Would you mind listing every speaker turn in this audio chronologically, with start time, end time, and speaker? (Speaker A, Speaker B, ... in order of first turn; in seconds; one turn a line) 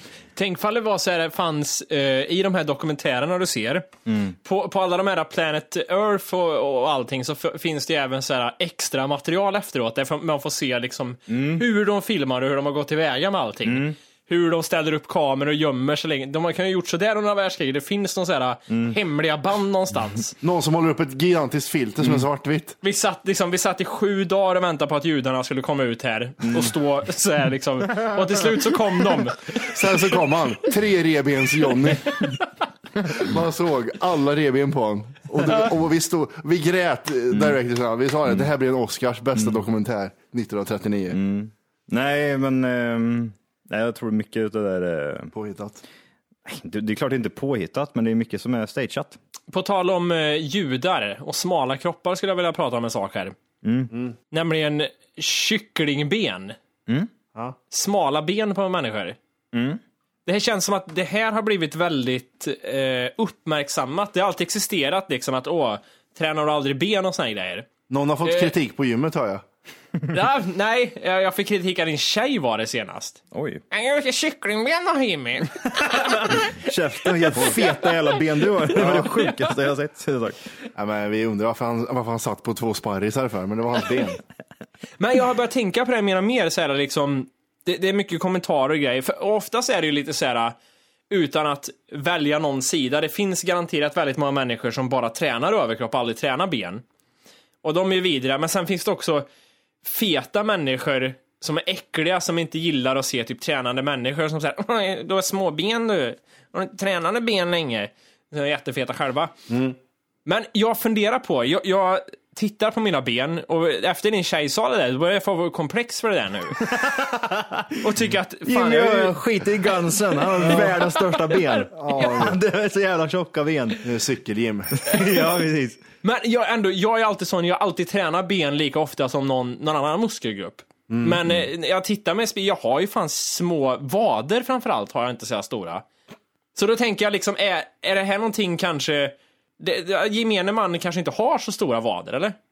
Speaker A: 0.4-3.9
Speaker B: 4.0-4.4
Speaker A: 4.4-20.4
Speaker B: 11.3-11.6
Speaker B: 13.6-13.9
Speaker B: 18.7-19.0
Speaker C: 20.4-22.8
Speaker A: 22.8-29.5
Speaker B: 26.4-26.7
Speaker B: 28.0-28.3
Speaker C: 29.6-32.2
Speaker C: 33.0-41.2
Speaker B: 37.3-37.6
Speaker B: 39.4-39.6
Speaker B: 41.1-45.3
Speaker C: 45.3-45.8
Speaker B: 46.5-49.2
Speaker A: 49.5-53.3
Speaker B: 53.6-53.9
Speaker A: 54.3-56.5
Speaker A: 57.7-59.2
Speaker B: 59.5-59.8
Speaker A: 60.2-67.7
Speaker C: 67.9-69.4
Speaker A: 68.2-68.5
Speaker A: 70.1-73.2
Speaker B: 73.3-73.6
Speaker A: 73.7-76.6
Speaker B: 75.9-80.4
Speaker A: 77.2-77.7
Speaker A: 78.8-79.5
Speaker C: 80.8-84.2
Speaker A: 85.0-90.5
Speaker A: 91.1-96.8
Speaker A: 97.6-99.2
Speaker A: 99.8-109.3
Speaker C: 109.5-109.8
Speaker A: 110.2-116.6
Speaker B: 116.6-123.9
Speaker A: 117.8-121.7
Speaker C: 121.7-122.4
Speaker C: 123.8-124.8
Speaker B: 124.8-125.8
Speaker A: 124.9-125.2
Speaker A: 126.0-135.8
Speaker C: 130.9-131.2
Speaker A: 136.5-142.4